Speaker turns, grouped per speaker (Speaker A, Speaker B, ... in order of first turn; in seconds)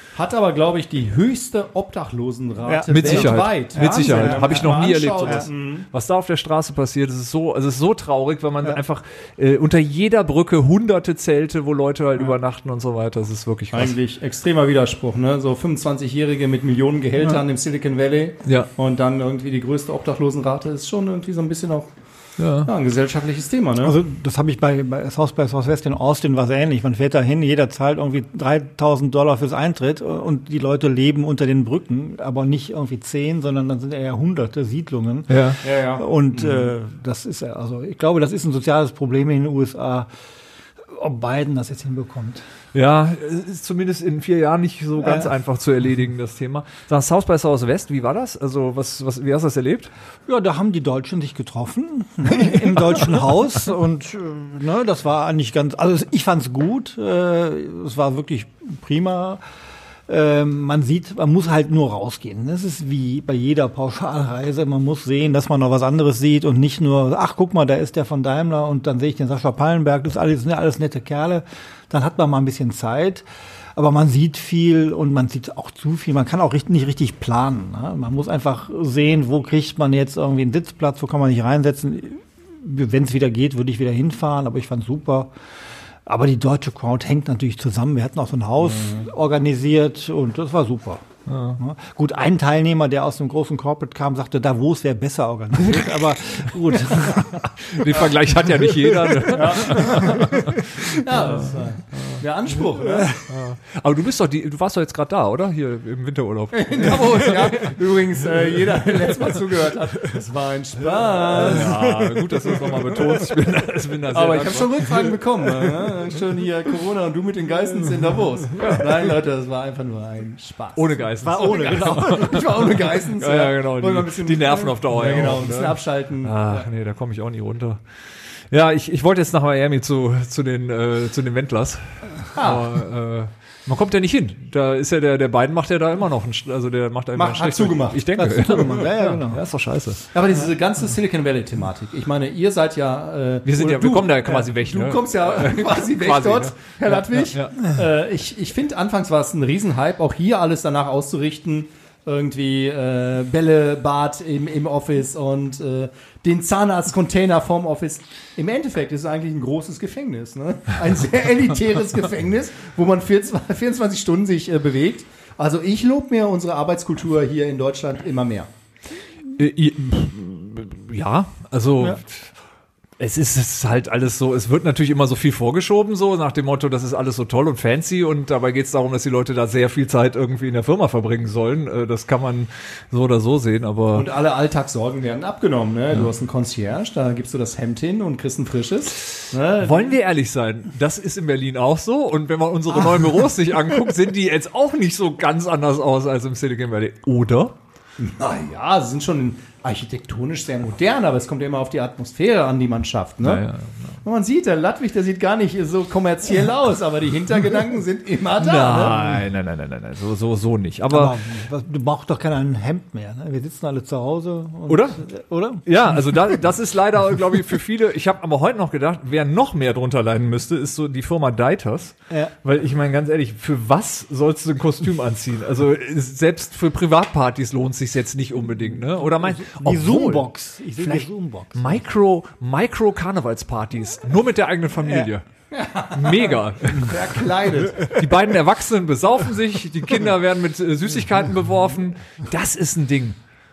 Speaker A: 0.1-5.9, 13.7-21.9, 22.6-23.9, 35.6-36.0, 88.7-89.0, 99.3-100.3, 100.9-103.1, 106.5-111.7, 114.1-126.7, 132.3-132.7, 137.1-138.1, 140.1-168.5, 183.9-189.9, 198.0-203.4, 204.0-209.2, 235.5-237.9
Speaker B: 2.6-5.5, 23.8-40.1, 40.9-42.4, 45.0-45.3, 50.3-59.4, 60.1-85.3, 86.0-91.0, 91.6-100.9, 102.8-103.2, 111.4-113.0, 121.2-122.5, 138.2-139.4, 210.9-216.4, 228.7-231.8
Speaker C: 2.9-13.9, 22.4-22.7, 35.3-35.6, 42.7-49.9, 52.5-53.0, 91.3-91.6, 97.4-102.2, 103.3-107.7, 111.2-115.1, 118.5-118.8, 120.8-127.8, 128.5-140.1, 143.4-147.6, 169.4-172.3, 173.0-184.1, 189.6-197.5, 203.2-204.0, 208.4-211.1, 214.7-215.0, 215.6-230.3, 230.8-235.2, 235.9-236.9, 237.8-243.2